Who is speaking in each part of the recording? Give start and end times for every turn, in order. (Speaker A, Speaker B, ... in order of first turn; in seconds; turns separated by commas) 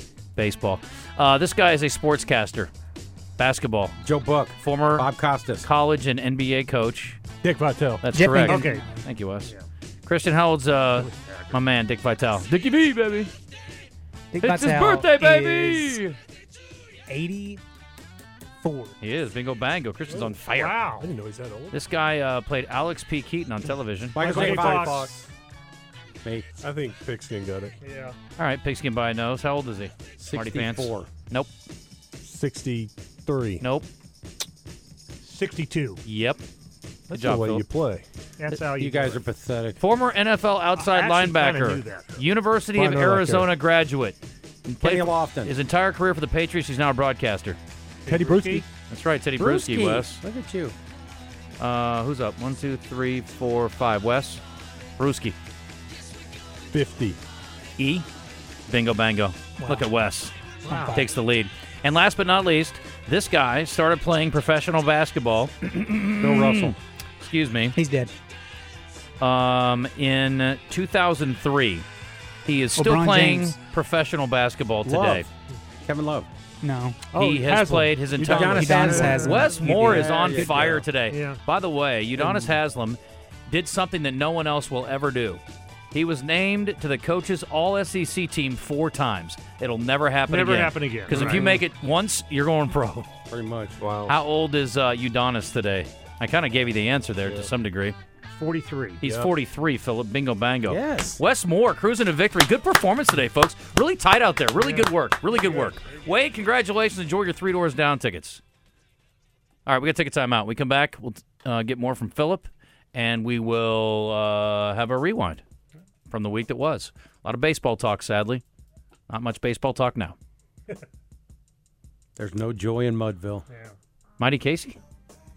Speaker A: 0.3-2.7, Speaker A: 3.4-4.0, Speaker B: 4.0-5.7, Speaker A: 4.6-5.1, Speaker A: 5.6-7.2, Speaker C: 7.4-8.0, Speaker A: 8.0-9.5, Speaker D: 8.1-9.1, Speaker E: 8.4-8.9, Speaker A: 10.0-13.3, Speaker E: 11.0-11.6, Speaker D: 14.3-16.0, Speaker A: 14.4-16.1, Speaker D: 17.1-17.6, Speaker D: 18.6-18.9, Speaker A: 19.0-20.8, Speaker E: 20.4-21.1, Speaker C: 21.0-21.8, Speaker A: 21.7-24.2, Speaker B: 24.1-25.3, Speaker E: 24.2-25.1, Speaker C: 24.3-25.1, Speaker C: 26.6-27.7, Speaker E: 27.8-28.1, Speaker A: 28.4-31.5, Speaker B: 30.2-31.1, Speaker C: 32.2-33.6, Speaker A: 33.6-33.9, Speaker E: 35.2-36.0, Speaker A: 36.0-36.4, Speaker C: 37.1-38.0, Speaker A: 37.1-37.6, Speaker E: 38.4-39.2, Speaker B: 38.8-39.8, Speaker A: 39.8-47.6, Speaker E: 40.7-42.2, Speaker C: 42.7-43.5, Speaker B: 44.8-45.5, Speaker E: 48.0-48.6, Speaker C: 48.0-48.6, Speaker A: 48.9-50.2, Speaker B: 49.4-50.7, Speaker A: 51.6-54.4, Speaker A: 55.0-55.4, Speaker C: 56.7-57.2, Speaker A: 57.8-58.0, Speaker A: 58.7-67.8, Speaker D: 59.6-59.9, Speaker E: 60.6-61.0, Speaker D: 60.7-61.0, Speaker B: 66.2-66.8, Speaker D: 67.7-68.1, Speaker A: 69.2-71.8, Speaker A: 72.4-75.3, Speaker D: 72.8-73.6, Speaker B: 74.8-75.3, Speaker B: 75.8-76.3, Speaker D: 76.6-77.0, Speaker C: 77.1-79.4, Speaker A: 77.1-93.1, Speaker B: 78.2-80.8, Speaker D: 78.5-80.7, Speaker E: 81.1-81.4, Speaker B: 82.2-82.5, Speaker E: 90.3-91.5, Speaker C: 91.3-91.5, Speaker B: 93.3-93.8, Speaker C: 93.8-94.2, Speaker A: 94.0-98.0, Speaker C: 97.2-97.5, Speaker E: 98.3-99.0, Speaker A: 99.0-108.4, Speaker C: 99.0-99.3, Speaker B: 100.7-101.2, Speaker E: 104.6-104.9, Speaker A: 109.7-115.4, Speaker A: 116.1-118.4, Speaker A: 119.1-120.2, Speaker B: 122.2-123.5, Speaker A: 124.2-124.8